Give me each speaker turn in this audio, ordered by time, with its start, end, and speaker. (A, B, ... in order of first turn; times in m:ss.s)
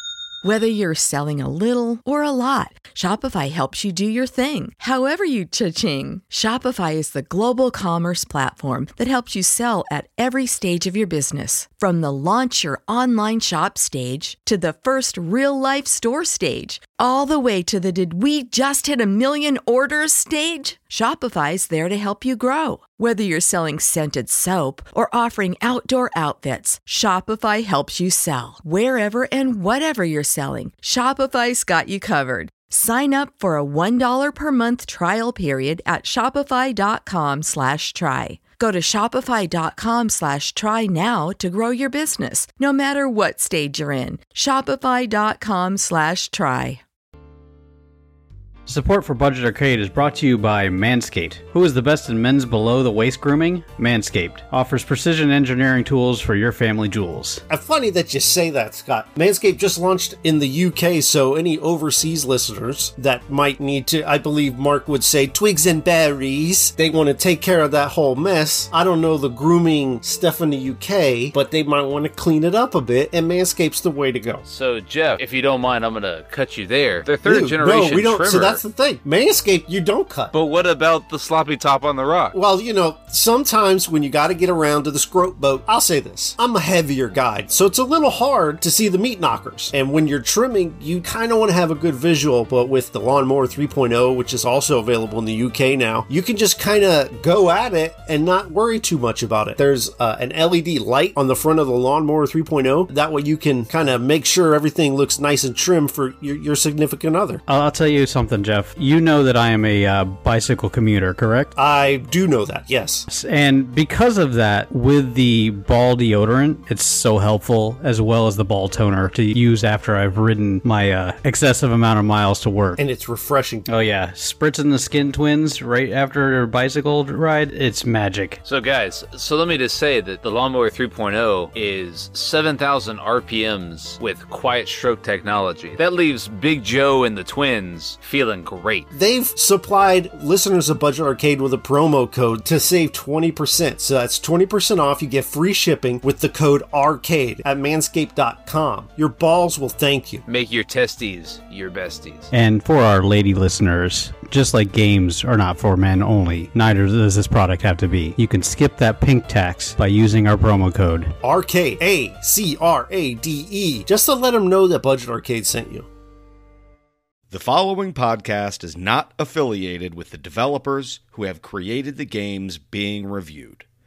0:00.4-0:46.8 A
0:48.7-0:57.4 B
0:57.5-1:14.4 C
1:14.5-1:18.6 D
1:17.2-1:20.3 C
1:20.3-1:22.4 D
1:22.3-1:47.4 C
1:47.5-1:51.5 B
1:51.6-1:53.1 C
1:53.1-2:02.8 B
2:02.8-2:03.7 C
2:03.7-2:08.4 B
2:08.4-2:18.9 D
2:18.9-2:30.2 C
2:30.2-2:32.3 D
2:32.3-2:41.1 B
2:41.2-2:45.9 C
2:47.3-2:53.6 E